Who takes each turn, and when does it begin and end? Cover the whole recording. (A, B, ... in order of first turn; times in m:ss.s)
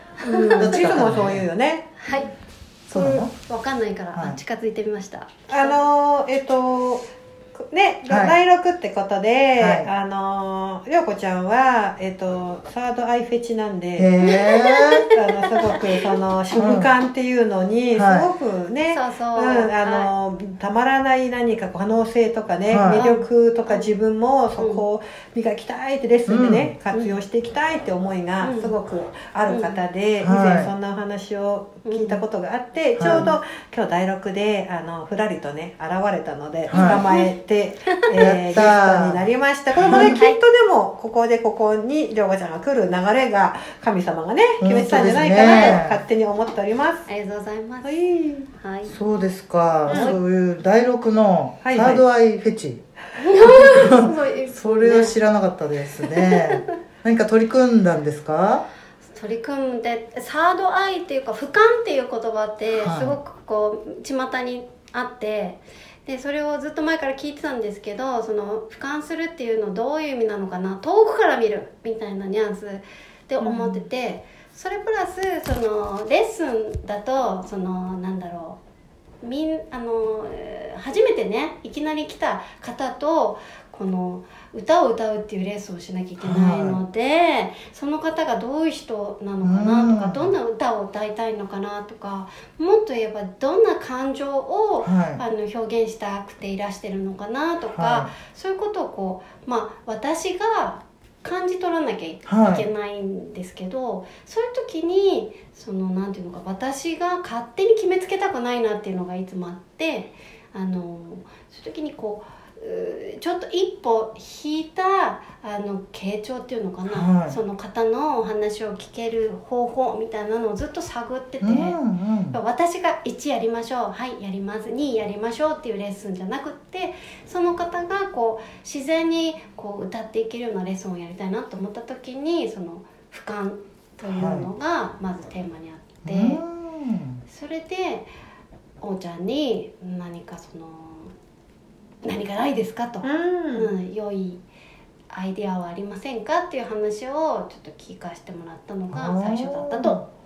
0:00.2-0:00.7 A
0:00.2-0:01.9 B
0:00.6-0:01.4 C
0:02.0-0:02.3 A
0:02.9-0:03.3 C
0:02.9-0:03.2 B
0:03.2-0:05.8 A
0:05.5-0:07.1 B
0:07.7-0:14.1 B
0:08.0-0:08.4 C
0:09.6-0:09.9 C
0:14.0-0:15.0 C
0:14.2-0:15.1 A
0:15.1-0:47.1 B
0:16.5-0:16.9 C
0:17.9-0:18.3 C
0:18.9-0:20.1 A
0:22.7-0:23.0 C
0:22.9-0:23.9 A
0:24.6-0:24.8 A
0:26.3-0:26.7 C
0:26.9-0:27.2 A
0:28.4-0:28.7 A
0:29.5-0:29.8 A
0:30.2-0:30.7 C
0:31.8-0:32.2 A
0:33.0-0:33.3 C
0:36.7-0:37.0 C
0:36.7-0:37.3 A
0:38.2-0:40.2 C
0:39.8-0:40.4 A
0:44.6-0:46.0 C
0:45.4-0:45.8 A
0:47.1-0:48.0 A
0:47.8-0:48.5 B
0:48.5-0:49.0 A
0:48.8-0:52.8 C
0:49.9-0:50.2 A
0:49.9-0:50.2 B
0:51.6-0:52.0 B
0:53.2-0:55.2 A
0:53.4-0:58.6 C
0:56.0-0:56.7 A
0:59.1-1:18.6 A
1:02.7-1:03.2 C
1:13.4-1:13.8 B
1:19.2-2:01.8 A
1:26.2-1:26.8 C
1:29.4-1:30.3 C
1:34.8-1:35.2 C
1:37.7-1:38.1 C
1:42.2-1:42.6 C
1:56.8-1:57.4 C
2:01.4-2:02.4 C
2:02.3-2:16.4 A
2:14.0-2:14.5 C
2:16.0-2:17.2 C
2:17.2-2:18.1 A
2:18.8-2:21.1 A
2:22.0-2:24.4 A
2:23.0-2:23.7 B
2:25.1-2:30.0 A
2:28.9-2:30.0 C